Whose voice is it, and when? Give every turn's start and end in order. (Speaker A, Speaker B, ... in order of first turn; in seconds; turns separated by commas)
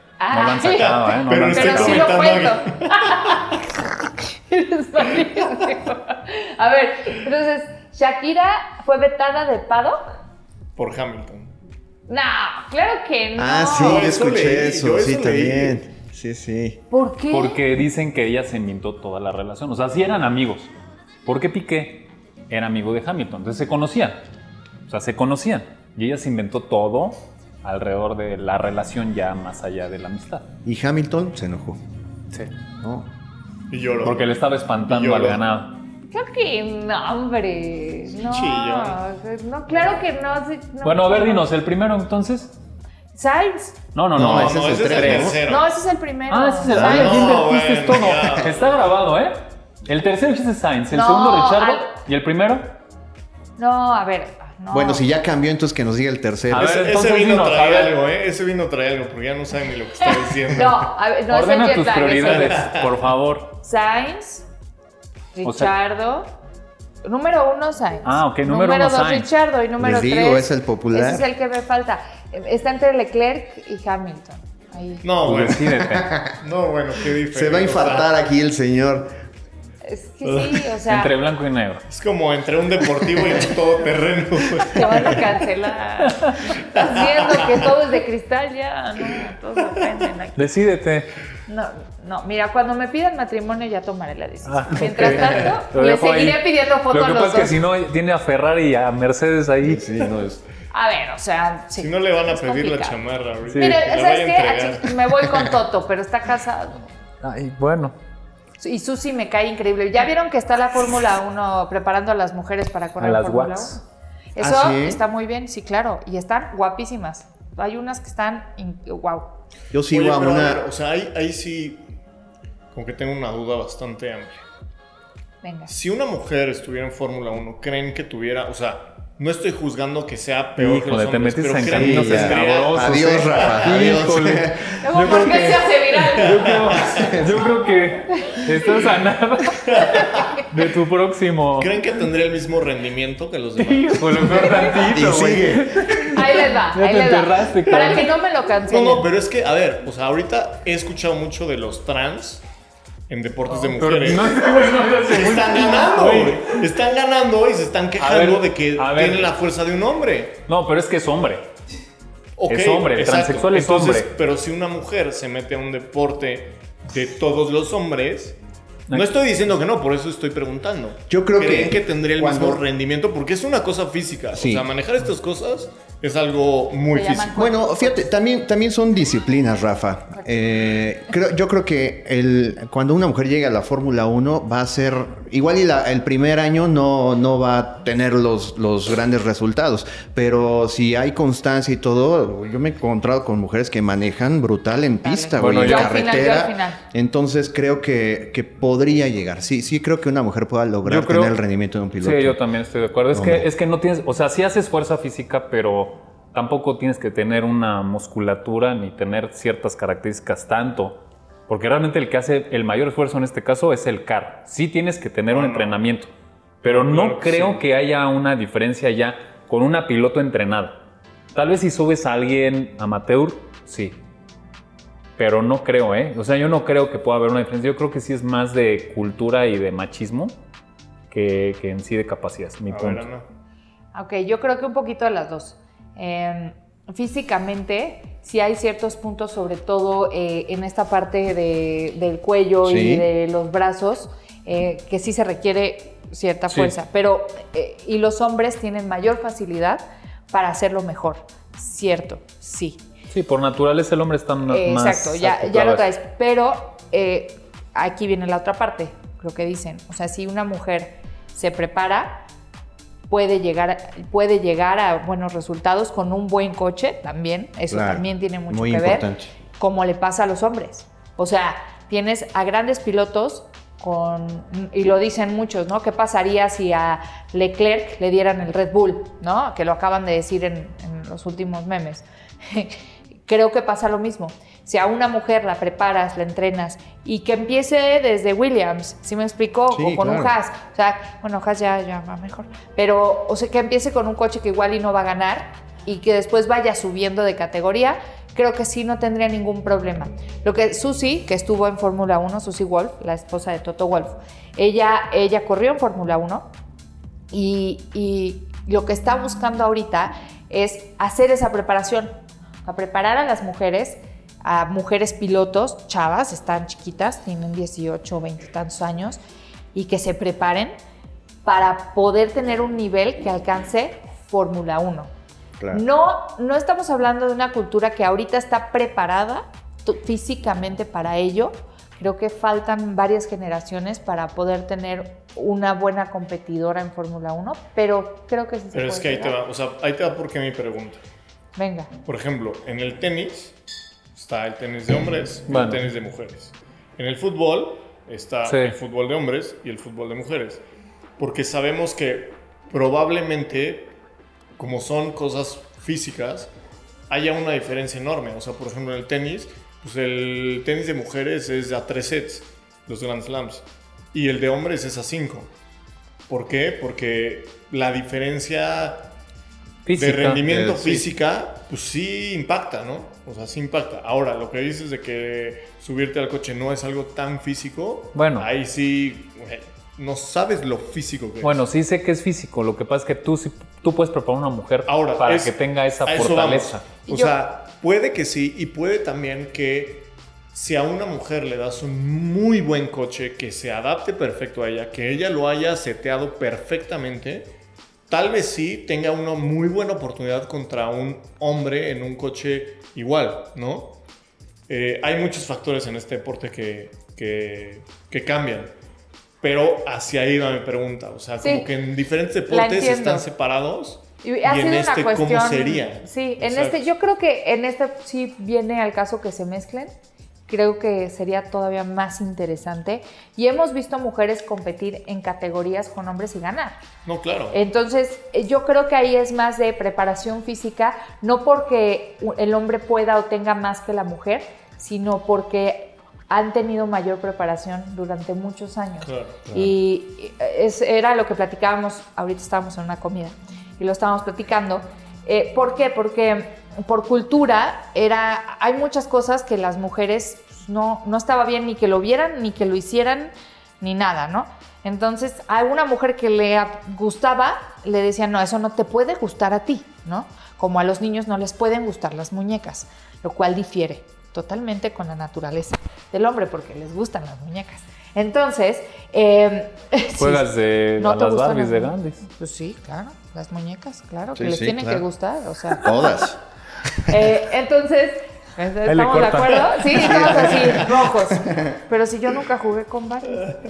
Speaker A: 0.2-10.2, Speaker B: 0.3-2.2, Speaker C: 0.7-3.4, Speaker C: 10.8-11.5, Speaker A: 12.1-14.1, Speaker D: 13.4-16.8, Speaker C: 13.8-15.8, Speaker A: 16.9-17.6, Speaker B: 17.3-20.7, Speaker B: 21.3-24.2, Speaker B: 24.9-30.5, Speaker D: 30.6-31.8, Speaker D: 32.8-33.1, Speaker C: 33.7-34.3, Speaker B: 34.0-35.8, Speaker C: 34.9-35.4, Speaker A: 36.1-41.5, Speaker C: 38.1-39.0, Speaker B: 40.8-42.5, Speaker A: 43.1-43.8, Speaker B: 43.9-45.4, Speaker D: 44.1-45.4, Speaker C: 44.1-45.8, Speaker A: 45.5-47.3, Speaker B: 46.3-52.7, Speaker D: 46.7-47.2, Speaker C: 46.8-48.8, Speaker A: 50.9-51.9, Speaker A: 53.6-55.1, Speaker D: 54.7-56.8, Speaker B: 56.5-58.0, Speaker C: 56.5-60.9, Speaker A: 60.5-62.9, Speaker B: 61.3-63.5, Speaker C: 62.3-62.9, Speaker A: 63.6-64.5, Speaker A: 65.3-66.3, Speaker B: 65.4-65.7, Speaker A: 67.0-75.0, Speaker B: 68.0-69.3, Speaker D: 69.8-71.3, Speaker C: 75.0-75.7, Speaker B: 75.2-76.1, Speaker D: 75.7-76.3, Speaker C: 76.4-78.1, Speaker D: 77.3-79.1, Speaker A: 79.8-81.1, Speaker C: 80.2-80.7, Speaker B: 80.9-81.8, Speaker C: 81.9-85.2, Speaker A: 84.7-90.5, Speaker B: 86.1-86.3, Speaker C: 86.8-87.7, Speaker B: 90.4-91.1, Speaker A: 91.5-97.6, Speaker B: 94.5-99.8, Speaker D: 95.0-95.4, Speaker D: 99.6-100.4, Speaker A: 100.7-103.0, Speaker C: 101.8-105.5, Speaker A: 103.5-106.8, Speaker B: 107.2-108.0, Speaker A: 108.6-113.8, Speaker B: 113.0-113.8, Speaker A: 114.3-119.3, Speaker D: 114.4-115.0, Speaker D: 119.7-120.7, Speaker C: 119.9-121.8, Speaker C: 122.7-124.4, Speaker A: 125.4-125.7, Speaker C: 125.7-133.8, Speaker B: 130.6-141.8, Speaker D: 131.7-134.9, Speaker A: 134.8-136.7, Speaker C: 136.2-137.1, Speaker D: 136.9-137.4, Speaker A: 138.2-138.8, Speaker C: 139.7-140.3, Speaker C: 141.6-144.6, Speaker B: 143.6-148.1, Speaker A: 144.3-144.8, Speaker D: 144.8-146.1, Speaker A: 146.1-149.1, Speaker C: 148.7-152.4, Speaker C: 153.1-160.4, Speaker B: 153.5-156.6, Speaker D: 155.7-156.2, Speaker B: 158.0-159.3, Speaker B: 160.5-161.5, Speaker C: 162.4-168.4, Speaker B: 162.5-164.1, Speaker C: 168.9-177.4, Speaker D: 171.1-172.6, Speaker D: 174.3-174.7, Speaker A: 176.9-178.1, Speaker D: 177.3-202.4, Speaker A: 180.2-180.4, Speaker A: 195.0-196.8, Speaker B: 195.4-196.3, Speaker B: 200.8-201.4, Speaker B: 202.0-216.1, Speaker D: 203.1-203.5, Speaker C: 215.3-215.8, Speaker B: 216.6-220.8, Speaker C: 216.7-217.6, Speaker B: 221.3-224.0, Speaker B: 225.2-230.3, Speaker B: 231.1-233.1, Speaker C: 232.7-233.2, Speaker A: 233.9-252.8, Speaker D: 242.6-243.1, Speaker B: 246.5-246.8, Speaker B: 253.1-255.9, Speaker A: 254.5-262.2, Speaker A: 263.1-306.5, Speaker D: 267.7-269.3, Speaker D: 289.7-290.4, Speaker A: 307.3-312.1, Speaker A: 312.6-319.2, Speaker A: 319.7-320.8, Speaker A: 321.4-325.1, Speaker D: 325.6-325.9, Speaker A: 325.7-339.4, Speaker C: 338.7-341.0, Speaker A: 341.6-341.9, Speaker C: 342.1-343.5, Speaker C: 344.1-350.6, Speaker B: 345.5-345.8, Speaker B: 348.4-348.8, Speaker C: 351.2-353.9, Speaker C: 354.6-356.5, Speaker C: 357.1-365.5, Speaker C: 366.3-369.1, Speaker B: 369.9-370.4, Speaker C: 370.0-381.6, Speaker D: 370.5-371.1, Speaker B: 378.1-378.5, Speaker B: 381.4-386.9, Speaker C: 384.9-397.5, Speaker A: 387.1-387.4, Speaker C: 398.1-403.9, Speaker C: 404.7-408.7, Speaker C: 409.4-416.9, Speaker A: 411.4-411.7, Speaker A: 412.5-413.2, Speaker A: 414.2-419.9, Speaker A: 420.5-426.8, Speaker C: 427.1-427.6, Speaker A: 427.5-476.3, Speaker C: 439.0-439.4, Speaker D: 439.5-439.8, Speaker B: 470.2-472.3, Speaker D: 474.3-475.1, Speaker D: 475.7-476.4, Speaker D: 476.9-477.3, Speaker A: 477.0-483.5, Speaker B: 478.9-479.9, Speaker D: 479.9-481.8, Speaker C: 480.1-480.9